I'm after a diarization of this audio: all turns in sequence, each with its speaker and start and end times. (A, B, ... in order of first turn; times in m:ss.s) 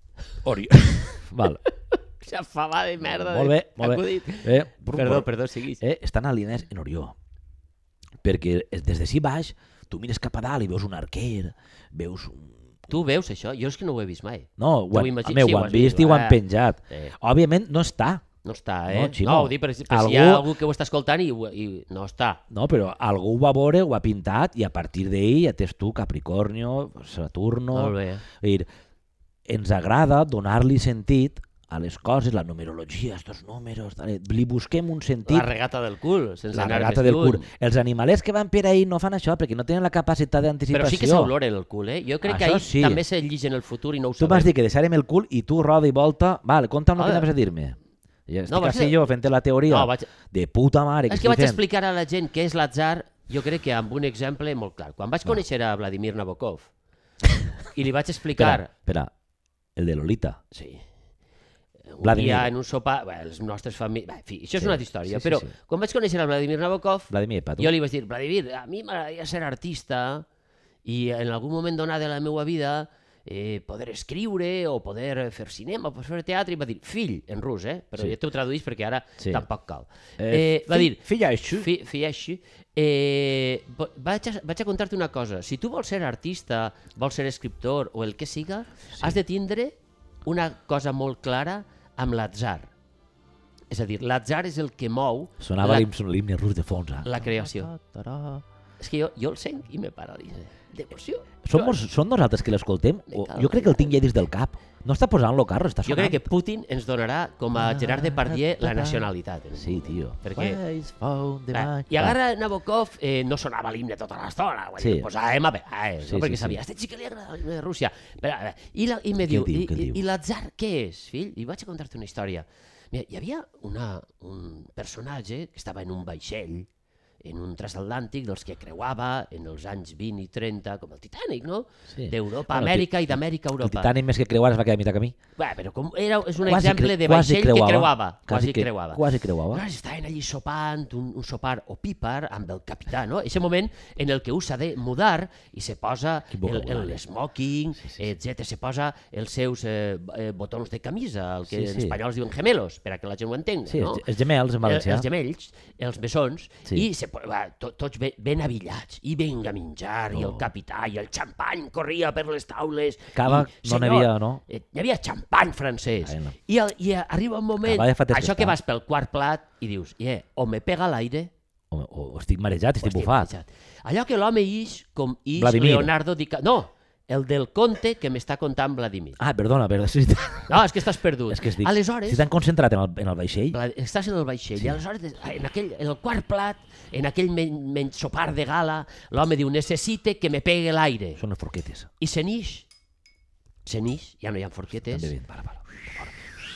0:00.4-0:01.6 A
0:01.9-0:05.8 B
0:03.0-0:05.3 A
0:05.8-0:07.2 A
0:08.2-0:12.6 A
0:12.9-0:17.1 B
0:14.6-0:18.2 A
0:18.4-0:22.4 B
0:18.9-0:20.5 A
0:22.5-0:28.7 A
0:27.7-0:28.2 B
0:29.5-0:35.5 A
0:35.3-0:37.5 B
0:36.5-0:41.3 A
0:40.7-0:44.5 B
0:42.2-0:43.0 A
0:44.2-0:47.8 A
0:47.0-0:47.3 B
0:48.3-0:51.6 A
0:48.5-0:49.0 B
0:49.7-0:50.1 B
0:51.1-0:56.7 B
0:57.7-0:58.7 B
0:58.4-0:59.1 A
0:59.8-1:00.4 A
1:00.5-1:00.8 B
1:01.9-1:10.3 B
1:02.0-1:02.5 A
1:04.6-1:05.5 A
1:07.1-1:07.7 A
1:10.8-1:32.7 B
1:19.2-1:19.4 A
1:20.2-1:21.7 A
1:33.7-1:35.9 B
1:35.4-1:38.4 A
1:37.0-1:37.7 B
1:38.8-1:41.8 B
1:41.4-1:46.3 A
1:43.1-1:44.0 B
1:45.9-1:50.6 B
1:47.6-1:52.2 A
1:51.5-2:06.7 B
1:54.8-1:55.1 A
1:56.0-1:56.6 A
1:59.2-2:00.0 A
2:07.2-2:13.9 B
2:11.9-2:15.2 A
2:15.4-2:34.1 B
2:16.4-2:19.6 A
2:26.3-2:27.0 A
2:31.5-2:32.0 A
2:33.7-2:35.1 A
2:34.6-2:51.3 B
2:40.1-2:40.5 A
2:43.1-2:44.4 A
2:46.0-2:46.4 A
2:47.6-2:48.6 A
2:51.7-2:53.3 A
2:52.8-2:59.2 B
2:55.4-2:55.9 A
2:59.2-3:00.7 A
3:00.5-3:02.2 B
3:01.3-3:03.6 A
3:03.5-3:11.2 B
3:11.2-3:11.9 A
3:12.0-3:12.7 B
3:13.6-3:15.1 B
3:14.9-3:16.2 A